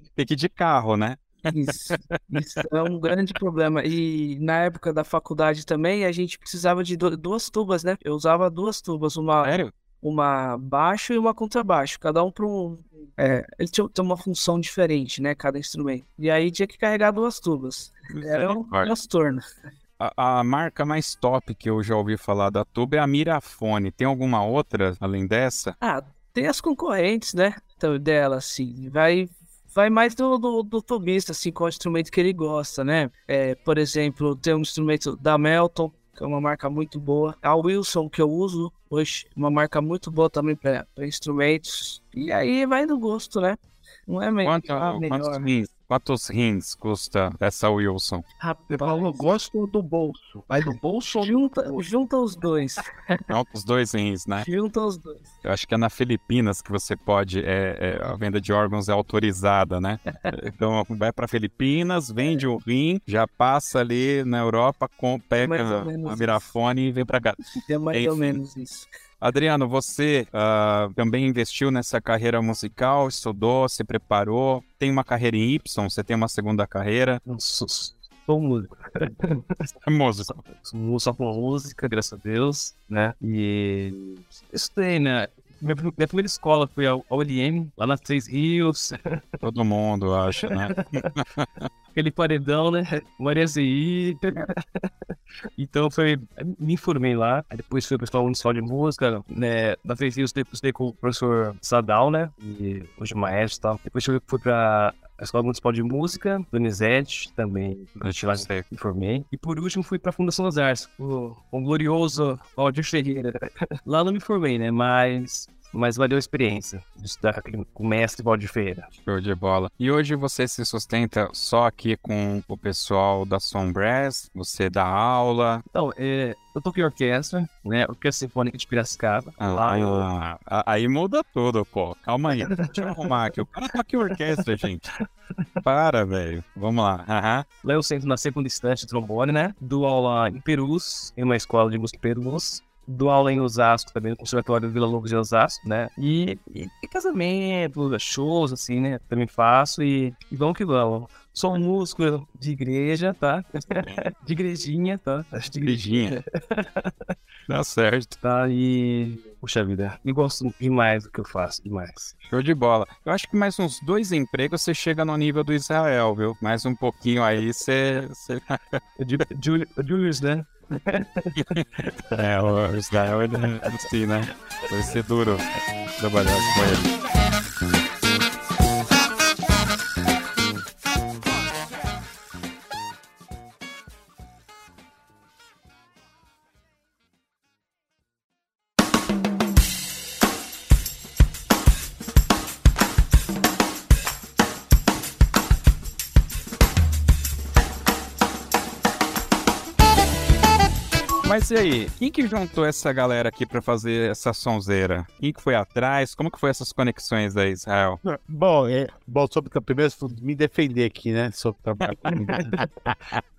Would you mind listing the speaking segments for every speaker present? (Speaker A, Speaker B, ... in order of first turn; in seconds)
Speaker A: 0.2-2.2, 9.4-9.7, 18.1-18.9, 20.0-25.8, 44.4-48.2, 53.3-54.5, 55.4-68.4, 69.2-77.2, 79.8-80.5, 89.4-91.7, 108.0-108.7, 119.0-125.6, 129.4-134.8, 135.6-137.5, 155.6-156.2, 157.5-158.2, 162.2-168.8, 171.5-176.9, 201.2-208.0
Speaker B: 1.5-19.4, 25.8-45.4, 51.2-53.2, 54.4-55.2, 65.4-66.5, 67.7-68.9
Speaker C: 48.4-51.3
Speaker D: 77.2-79.7, 80.3-89.4, 90.5-91.2, 91.9-94.9, 95.6-118.9, 125.7-130.1, 132.4-133.1, 137.6-157.1, 158.2-162.1, 169.0-171.6
Speaker E: 208.0-213.2